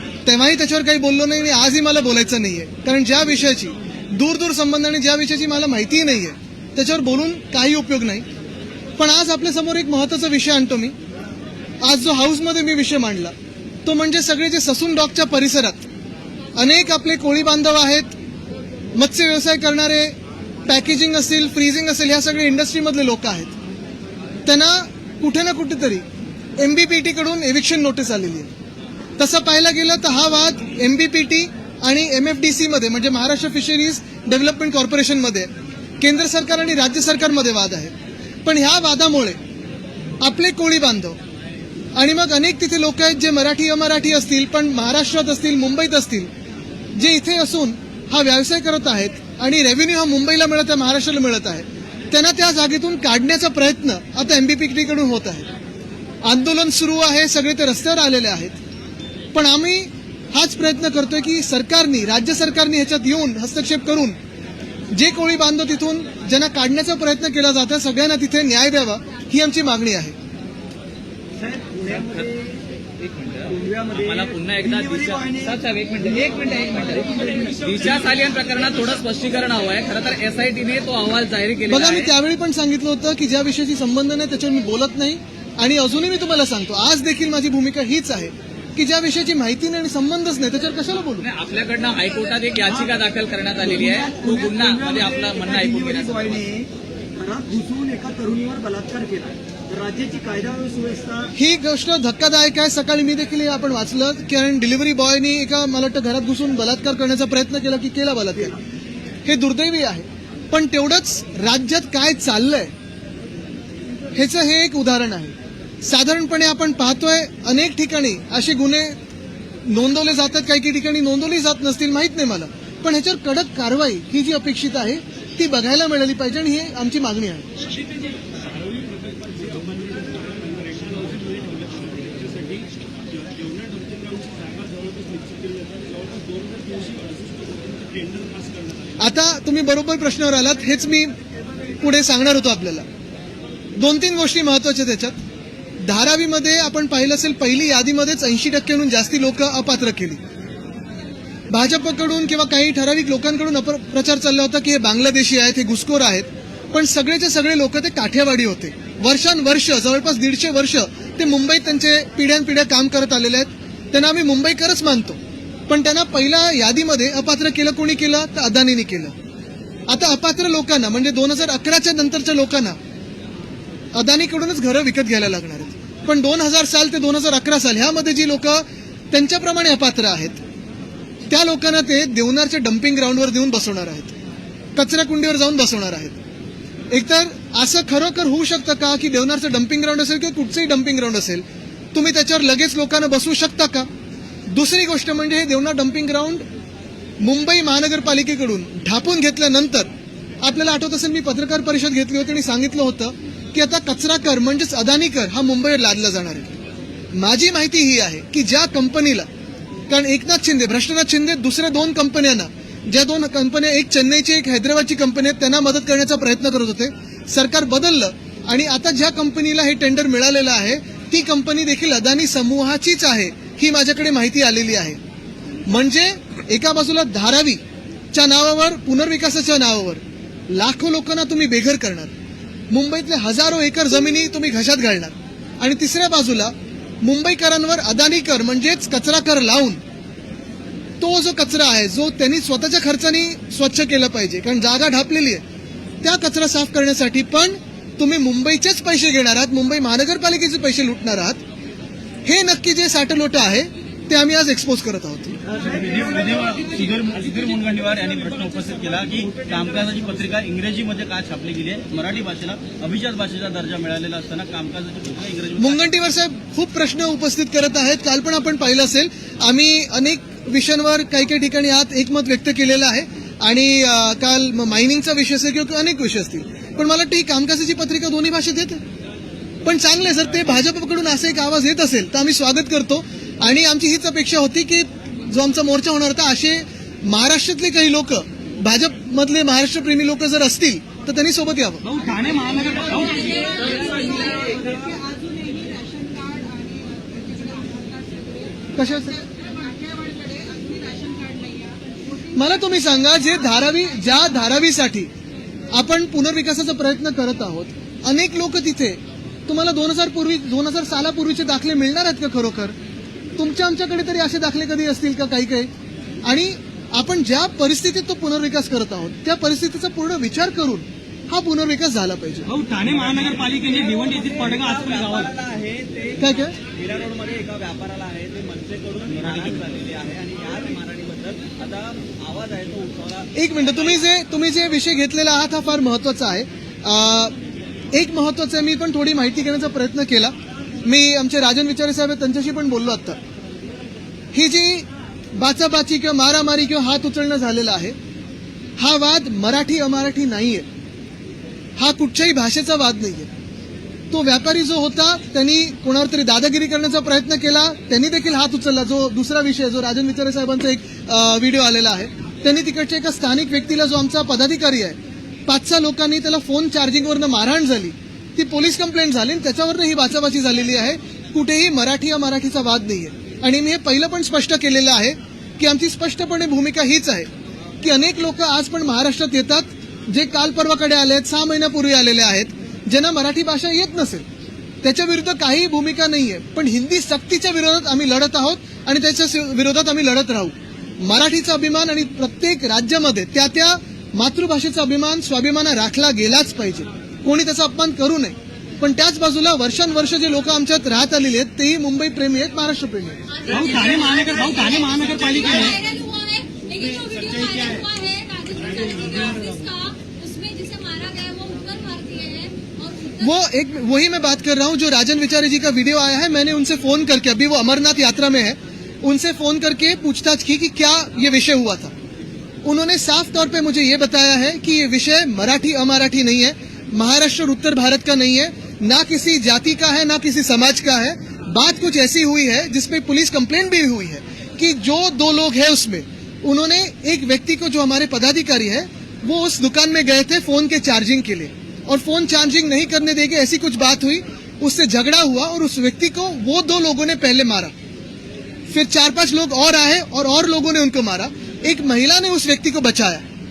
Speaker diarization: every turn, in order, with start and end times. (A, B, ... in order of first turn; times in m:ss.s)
0:00.2-0:08.3 A
0:09.0-0:10.9 A
0:11.8-0:13.3 A
0:13.8-0:15.8 A
0:16.6-0:18.1 A
0:19.0-0:20.2 A
0:20.7-0:23.5 A
0:24.5-0:26.0 A
0:26.6-0:28.5 A
0:29.2-0:37.9 A
0:38.4-0:39.4 A
0:40.2-0:41.2 A
0:42.0-0:46.3 A
0:47.0-0:55.5 A
0:56.2-0:58.6 A
0:59.3-1:04.2 A
1:04.9-1:10.1 A
1:11.5-1:12.0 B
1:12.0-1:12.4 C
1:13.0-1:22.1 C
1:21.7-1:31.3 A
1:31.2-1:36.5 C
1:37.2-1:41.3 B
1:37.6-1:38.0 D
1:41.4-1:48.6 A
1:49.2-1:52.7 A
1:54.1-1:59.0 A
1:59.7-2:07.5 A
2:19.0-2:21.2 A
2:21.8-2:22.9 A
2:23.8-2:25.2 A
2:25.8-2:30.2 A
2:31.5-2:49.1 A
2:49.9-2:52.8 A
2:53.9-3:00.4 A
3:01.3-3:04.2 A
3:04.8-3:06.2 A
3:06.9-3:13.9 A
3:14.5-3:16.4 A
3:17.2-3:19.9 A
3:20.4-3:26.6 A
3:27.1-3:29.3 A
3:29.9-3:45.0 A
3:45.7-3:47.6 A
3:48.1-3:52.1 A
3:52.7-3:59.8 A
4:01.0-4:05.4 A
4:06.0-4:11.4 A
4:12.3-4:15.4 A
4:15.5-4:25.8 B
4:25.6-4:38.8 A
4:39.6-4:51.8 A
4:51.8-4:53.6 D
4:53.3-4:58.5 E
4:58.8-4:59.3 A
4:59.4-5:01.8 E
5:02.3-5:05.1 A
5:05.7-5:12.8 A
5:13.4-5:15.7 A
5:16.2-5:22.5 A
5:22.5-5:25.3 D
5:23.1-5:33.3 B
5:26.2-5:26.6 A
5:33.4-5:37.4 A
5:37.9-5:43.2 A
5:44.3-5:48.0 A
5:48.8-5:50.7 A
5:51.8-5:53.3 A
5:54.1-6:17.3 A
6:17.8-6:24.2 A
6:24.8-6:43.2 A
6:43.5-6:45.8 D
6:43.9-6:53.3 E
6:53.2-7:01.9 A
7:02.6-7:27.7 A
7:28.7-7:33.2 A